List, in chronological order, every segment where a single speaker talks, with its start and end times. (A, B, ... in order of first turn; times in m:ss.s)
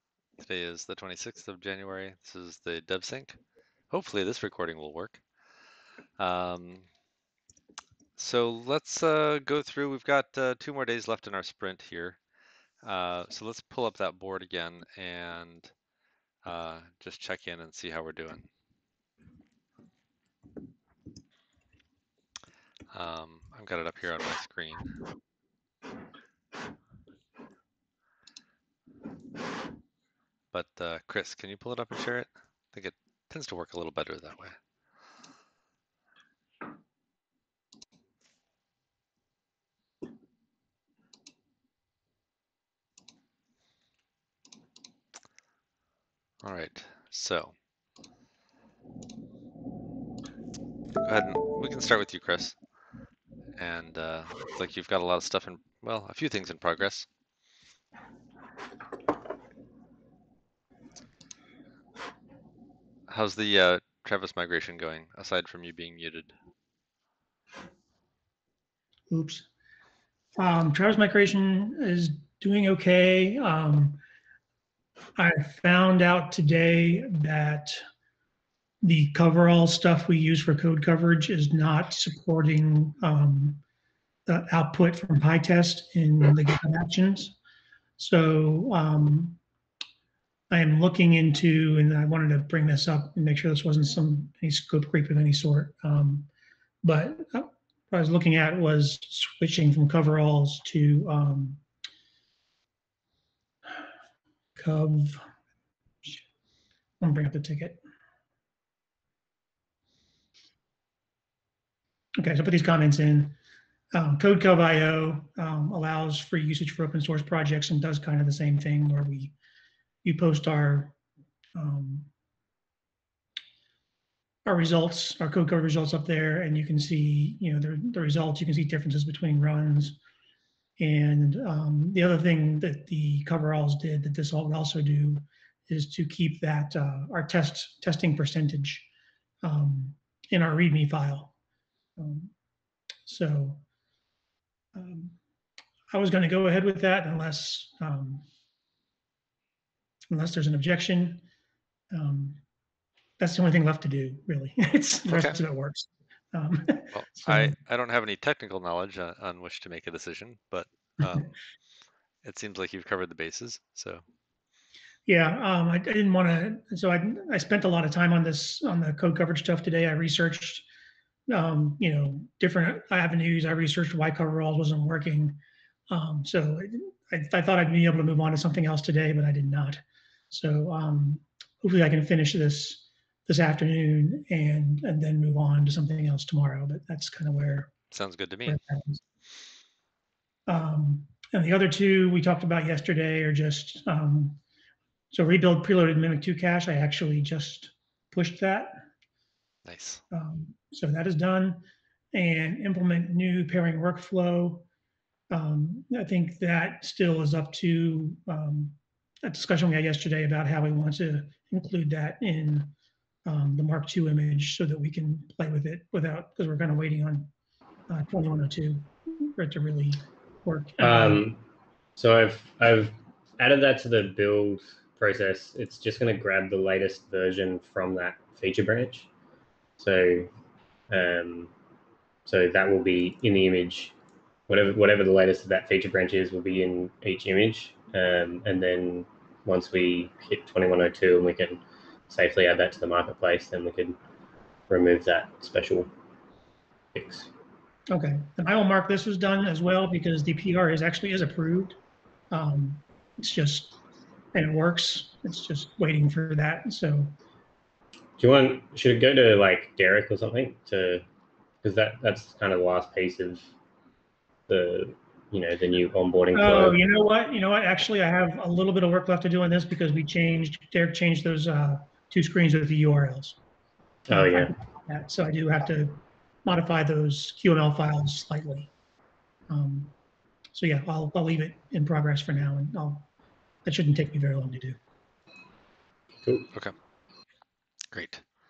0:00.4-0:03.4 A
0:03.9-0:05.2 A
0:06.2-0:06.8 A
0:08.2-0:12.2 A
0:12.8-0:15.7 A
0:16.4-0:18.5 A
0:22.9-0:24.9 A
0:30.5-0:34.6 A
0:46.4-0:47.5 A
0:51.0-0:52.5 A
0:53.6-0:57.1 A
1:03.1-1:06.3 A
1:09.1-1:09.4 B
1:10.4-1:14.0 B
1:15.2-1:17.8 B
1:18.8-1:23.6 B
1:24.3-1:27.3 B
1:28.0-1:29.4 B
1:30.5-1:36.3 B
1:36.8-1:41.6 B
1:44.6-1:45.2 B
1:47.0-1:47.8 B
1:52.2-1:53.4 B
1:53.9-1:59.3 B
2:00.0-2:00.9 B
2:01.5-2:02.1 B
2:04.4-2:10.0 B
2:10.8-2:18.9 B
2:19.4-2:21.3 B
2:22.0-2:22.3 B
2:23.0-2:23.6 B
2:24.7-2:25.2 B
2:25.9-2:28.2 B
2:30.1-2:31.2 B
2:31.9-2:32.4 B
2:33.2-2:37.5 B
2:35.1-2:35.4 A
2:36.9-2:41.3 A
2:42.2-2:44.0 A
2:45.0-2:50.6 B
2:51.3-2:55.4 B
2:55.9-3:07.7 B
3:07.9-3:08.6 A
3:08.5-3:09.0 B
3:10.5-3:14.4 B
3:15.1-3:18.8 B
3:19.6-3:20.0 A
3:20.1-3:24.6 B
3:25.3-3:32.7 B
3:33.2-3:37.3 B
3:37.9-3:41.3 B
3:40.8-3:41.4 C
3:42.0-3:49.1 C
3:49.8-3:50.3 C
3:50.9-3:51.5 C
3:52.2-3:53.9 C
3:54.5-4:04.0 C
4:04.7-4:05.9 C
4:06.9-4:07.3 C
4:07.9-4:11.8 B
4:12.3-4:13.8 B
4:14.3-4:17.2 B
4:18.2-4:21.0 C
4:21.6-4:23.5 C
4:24.5-4:26.8 C
4:26.3-4:33.4 B
4:34.1-4:34.5 C
4:34.1-4:38.7 B
4:39.5-4:39.9 B
4:40.5-4:43.1 B
4:43.6-4:44.8 B
4:47.9-4:48.2 A